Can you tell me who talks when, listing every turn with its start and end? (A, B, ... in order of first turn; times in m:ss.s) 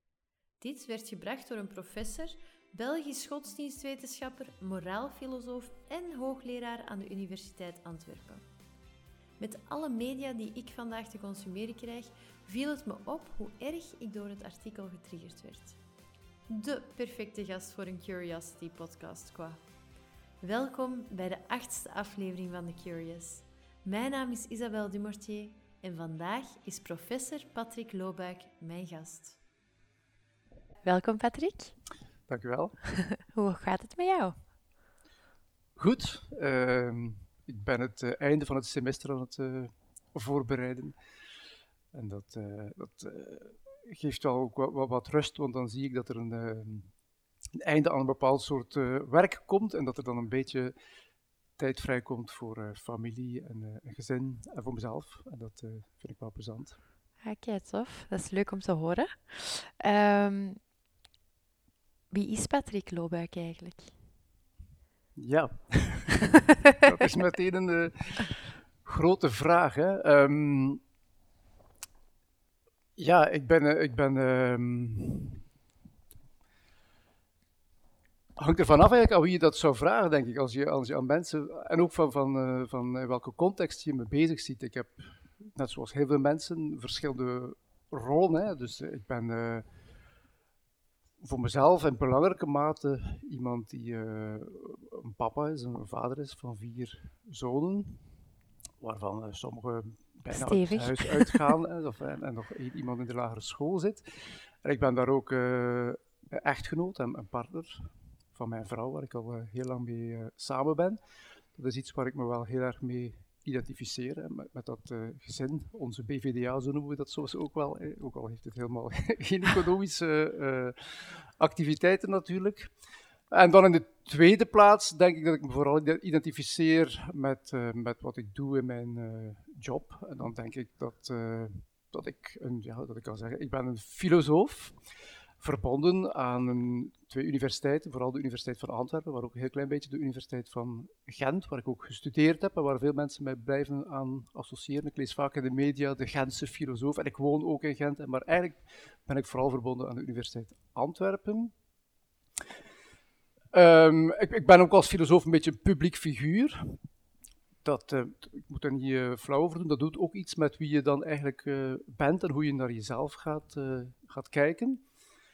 0:00.6-0:08.4 A
0:09.4-0:15.8 A
0:16.5-0:19.6 A
0:20.4-0:29.4 A
0:30.8-0:31.8 A
0:32.3-0:32.8 B
0:32.9-0:34.4 A
0:35.8-0:41.0 B
0:41.9-0:46.9 B
0:47.6-0:50.7 B
0:51.6-0:56.8 B
0:57.2-1:00.6 A
1:02.1-1:03.9 A
1:05.2-1:10.8 B
1:13.0-1:15.4 B
1:18.4-1:29.7 B
1:31.2-1:38.0 B
1:38.8-1:51.0 B
1:40.3-1:41.5 A
1:51.5-2:02.7 B
2:03.3-2:14.8 B
2:15.4-2:31.5 B
2:33.5-2:36.8 B
2:37.6-2:44.8 B